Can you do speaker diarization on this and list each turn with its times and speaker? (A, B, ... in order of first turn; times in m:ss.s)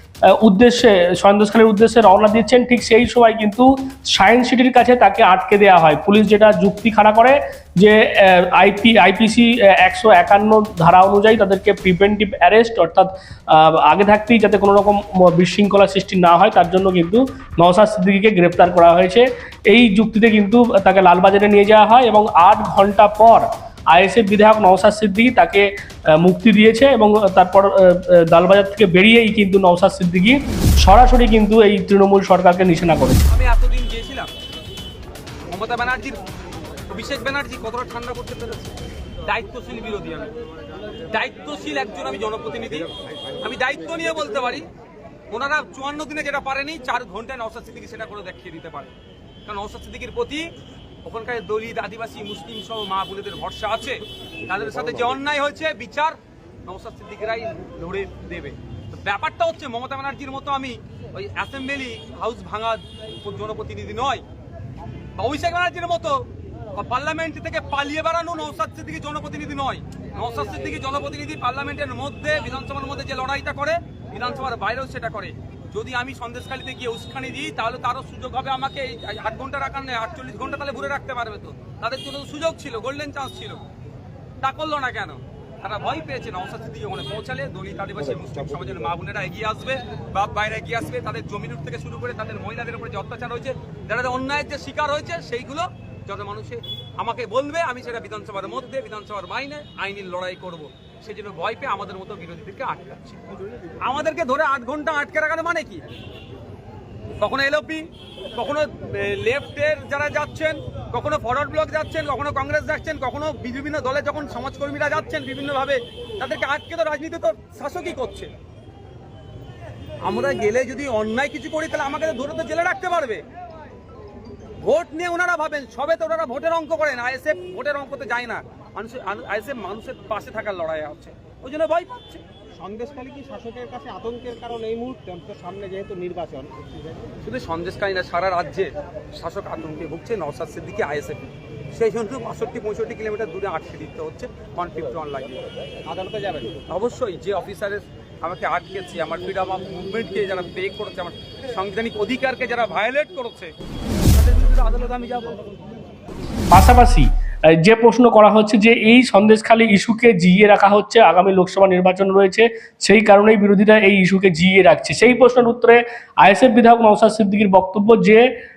0:00.3-0:25.7 A
0:26.2-0:33.3 A
0:33.3-0:34.3 B
0:35.5-0:36.2 B
0:36.9-0:40.3 B
0:41.1-0:44.7 B
0:45.3-0:48.9 B
0:49.5-0:50.5 B
0:51.0-1:04.2 B
1:05.2-1:23.6 B
1:24.4-1:45.8 B
1:47.2-1:58.3 B
2:00.0-2:03.2 B
2:04.6-2:12.2 B
2:12.6-2:17.0 C
2:17.2-2:25.4 B
2:25.9-2:26.5 C
2:26.5-2:33.5 B
2:34.1-2:35.5 B
2:36.5-2:48.2 A